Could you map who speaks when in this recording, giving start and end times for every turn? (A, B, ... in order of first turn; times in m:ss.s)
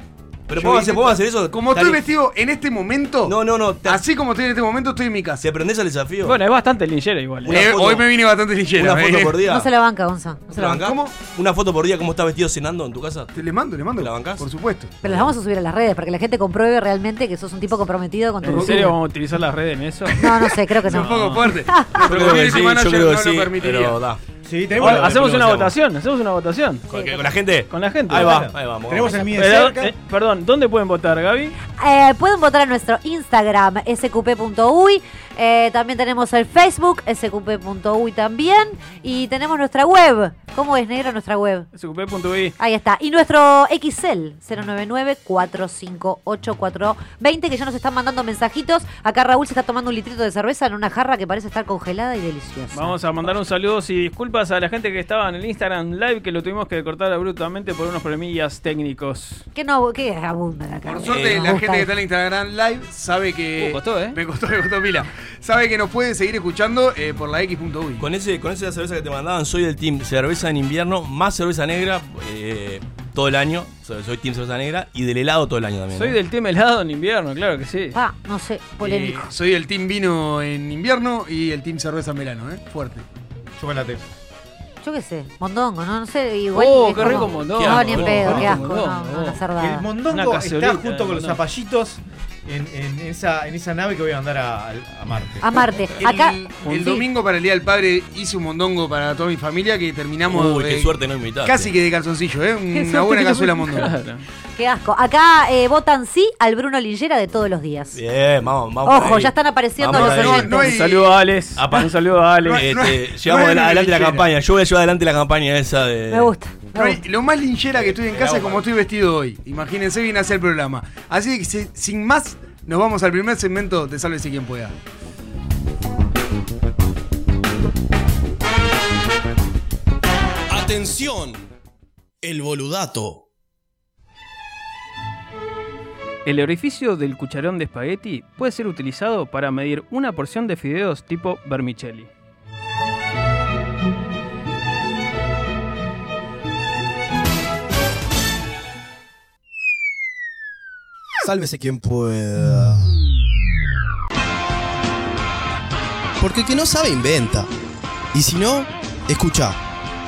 0:00.5-0:02.0 A
0:00.5-0:03.3 B
0:03.2-0:04.0 A
0:03.8-0:05.4 B
0:05.4-0:06.4 A
0:06.2-0:07.6 C
0:07.4-0:08.1 A
0:07.5-0:09.4 B
0:08.7-0:09.7 A
0:09.4-0:10.9 D
0:10.5-0:13.3 A
0:10.7-0:11.1 B
0:13.3-0:14.9 B
0:14.0-0:14.4 A
0:15.0-0:18.9 D
0:15.0-0:15.3 A
0:18.4-0:20.2 C
0:18.5-0:18.8 B
0:20.2-0:21.9 D
0:20.8-0:24.0 B
0:20.8-0:21.4 C
0:22.0-0:24.2 A
0:24.4-0:25.3 E
0:24.8-0:25.7 A
0:24.8-0:26.8 C
0:26.9-0:27.2 D
0:26.9-0:29.4 A
0:27.7-0:28.4 C
0:28.1-0:29.9 E
0:29.3-0:31.5 C
0:31.8-0:41.7 D
0:41.7-0:42.5 C
0:42.6-0:53.3 D
0:52.7-0:59.4 C
0:59.5-1:01.9 D
1:00.8-1:08.0 B
1:01.0-1:01.6 A
1:03.6-1:04.2 C
1:08.0-1:16.2 A
1:15.9-1:18.0 C
1:17.9-1:19.3 D
1:18.8-1:23.0 B
1:23.6-1:24.0 E
1:24.8-1:29.8 D
1:26.5-1:29.4 C
1:27.0-1:28.6 A
1:29.6-1:35.4 E
1:30.1-1:31.4 C
1:35.4-1:36.7 D
1:36.0-1:40.9 B
1:36.7-1:37.0 C
1:40.3-1:41.7 A
1:41.4-1:44.0 B
1:42.7-1:43.8 D
1:43.7-1:44.2 C
1:44.6-1:48.0 D
1:47.9-1:50.5 A
1:48.8-1:50.6 D
1:49.9-1:51.2 B
1:50.5-1:52.6 C
1:51.6-1:51.9 A
1:52.4-1:56.3 A
1:52.5-1:54.2 B
1:56.1-1:57.0 D
1:56.7-2:04.8 B
1:58.1-1:58.6 E
2:10.5-2:11.4 F
2:12.2-2:13.2 F
2:16.2-2:22.1 C
2:31.2-2:32.8 F
2:36.2-2:37.5 F
2:38.1-2:39.6 F